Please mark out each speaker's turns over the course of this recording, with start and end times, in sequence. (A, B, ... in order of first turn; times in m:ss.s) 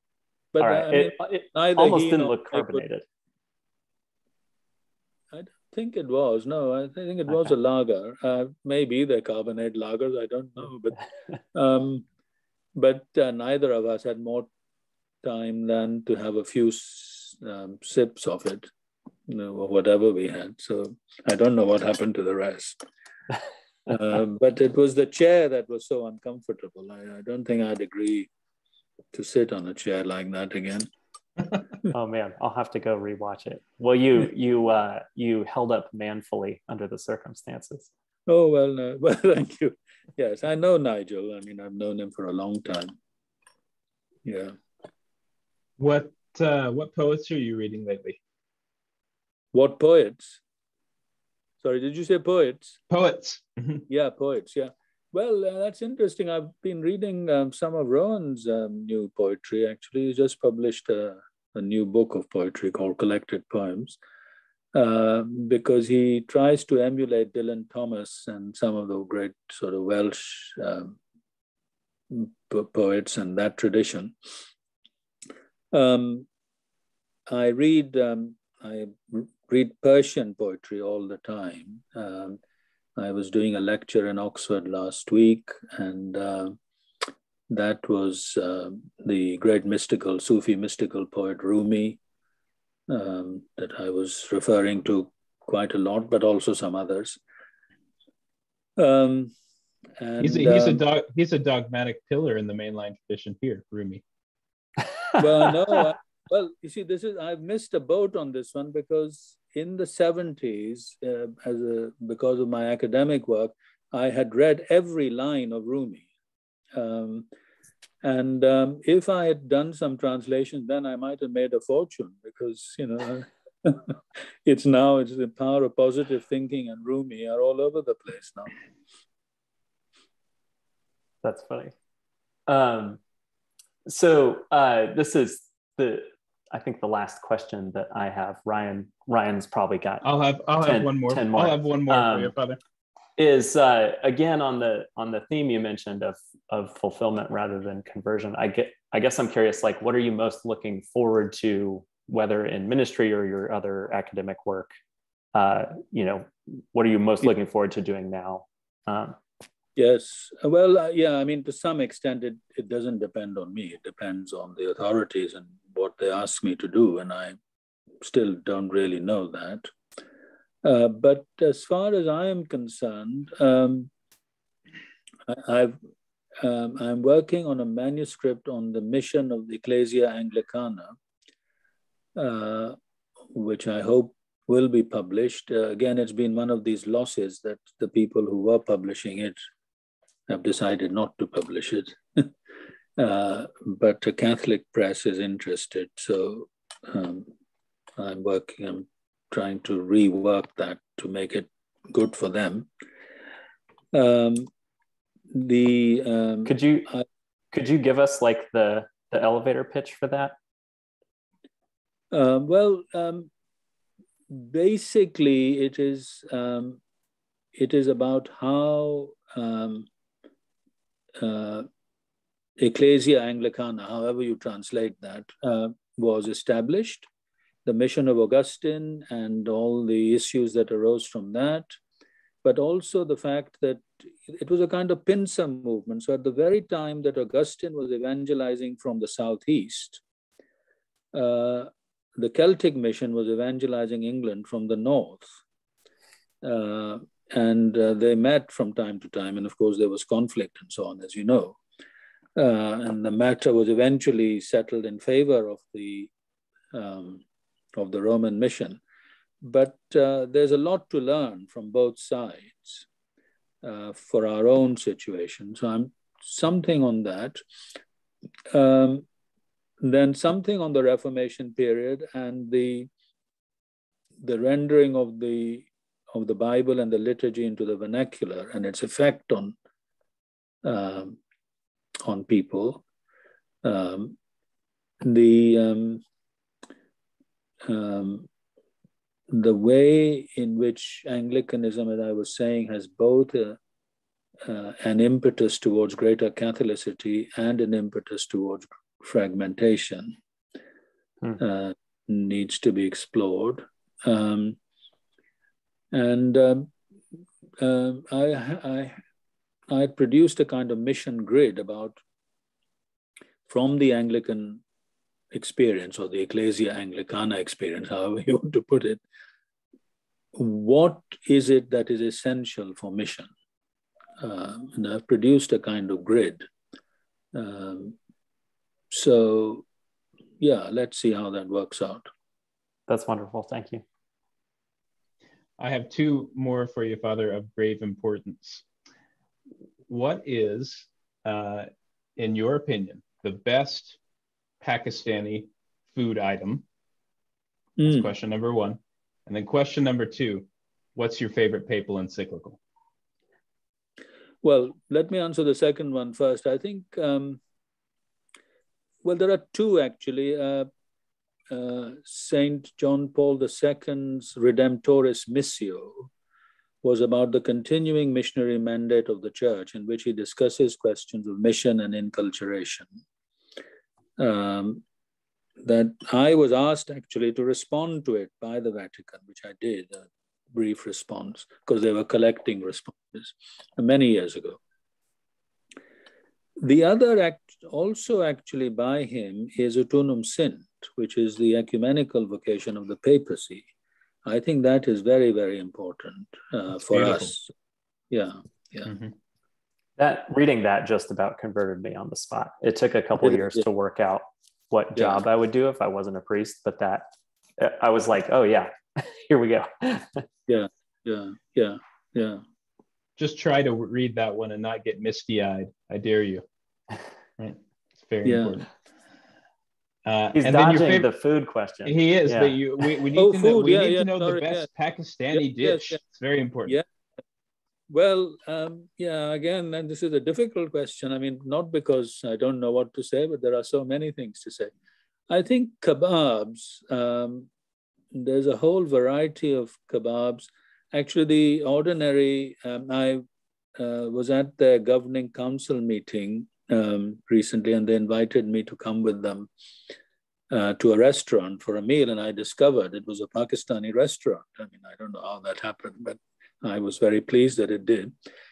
0:00.5-0:02.8 A
0:00.6-0:03.0 B
0:05.3-0:11.0 A
0:11.5-0:12.0 A
0:12.7-0:14.5 A
0:15.2-0:18.7 A
0:19.3-0:22.8 A
0:23.9-0:28.3 A
0:29.1-0:30.9 A
0:31.9-0:37.9 B
0:38.3-0:42.9 A
0:44.2-0:44.6 A
0:45.8-0:48.2 C
0:49.5-0:50.4 A
0:51.6-0:52.8 A
0:52.9-0:53.8 C
0:53.9-1:04.0 A
1:04.7-1:11.0 A
1:12.1-1:14.2 A
1:15.7-1:16.3 A
1:17.3-1:22.4 A
1:23.0-1:26.5 A
1:27.5-1:32.0 A
1:32.9-1:37.2 A
1:38.8-1:39.3 A
1:40.0-1:40.8 A
1:40.2-1:44.0 C
1:45.2-1:56.1 A
1:56.7-1:57.3 A
1:58.0-2:08.5 A
2:11.2-2:11.7 B
2:12.5-2:13.0 B
2:13.9-2:20.0 B
2:20.0-2:22.6 C
2:20.6-2:22.3 B
2:23.2-2:34.7 B
2:35.3-2:39.2 B
2:39.8-2:47.4 A
2:48.0-2:49.7 A
2:50.6-2:53.9 A
2:55.3-2:55.8 A
2:56.4-3:01.0 A
3:02.1-3:02.8 A
3:03.3-3:09.4 A
3:10.3-3:12.3 A
3:13.0-3:17.3 A
3:18.0-3:22.7 A
3:23.9-3:24.5 A
3:25.3-3:27.0 A
3:26.4-3:26.9 B
3:27.5-3:30.3 B
3:32.1-3:33.3 A
3:34.3-3:36.8 A
3:37.5-3:39.9 A
3:41.2-3:41.7 A
3:42.6-3:47.1 A
3:47.6-3:51.7 A
3:52.4-4:00.0 A
4:01.1-4:05.4 A
4:06.4-4:11.6 A
4:12.4-4:16.1 A
4:16.7-4:17.2 A
4:17.7-4:18.8 A
4:19.4-4:22.9 A
4:23.6-4:27.4 A
4:28.5-4:29.0 A
4:29.8-4:32.9 A
4:34.2-4:39.5 A
4:40.6-4:41.2 A
4:42.0-4:42.8 A
4:43.6-4:44.2 A
4:45.0-4:46.0 A
4:47.6-4:48.3 A
4:49.3-4:53.6 A
4:54.4-5:00.2 A
5:01.4-5:04.6 A
5:05.9-5:06.7 A
5:07.6-5:09.0 A
5:09.7-5:12.0 A
5:13.5-5:14.6 A
5:15.3-5:19.0 A
5:20.3-5:23.3 A
5:24.2-5:26.4 A
5:27.3-5:28.0 A
5:28.9-5:29.6 A
5:30.4-5:32.1 A
5:32.9-5:33.8 B
5:35.6-5:38.6 C
5:39.9-5:44.0 C
5:44.6-5:46.6 C
5:47.8-5:48.1 A
5:47.8-5:52.6 C
5:54.4-5:57.4 A
5:59.0-6:00.7 A
6:01.5-6:06.1 A
6:06.8-6:13.0 A
6:14.2-6:14.8 A
6:15.6-6:24.6 A
6:26.6-6:33.7 A
6:34.2-6:37.5 A
6:36.8-6:37.3 C
6:38.1-6:38.9 A
6:38.9-6:39.1 C
6:40.0-6:47.1 B
6:43.2-6:43.6 A
6:44.9-6:45.2 A
6:47.6-6:50.2 B
6:50.5-6:52.4 A
6:53.2-6:56.4 C
6:57.4-6:58.7 C
6:58.2-6:58.6 A
7:00.0-7:01.0 C
7:00.3-7:02.6 B
7:01.8-7:06.8 C
7:03.2-7:04.7 A
7:05.3-7:06.0 A
7:07.9-7:14.7 A
7:15.3-7:17.5 A
7:18.1-7:23.2 A
7:23.8-7:29.5 A
7:30.5-7:38.1 A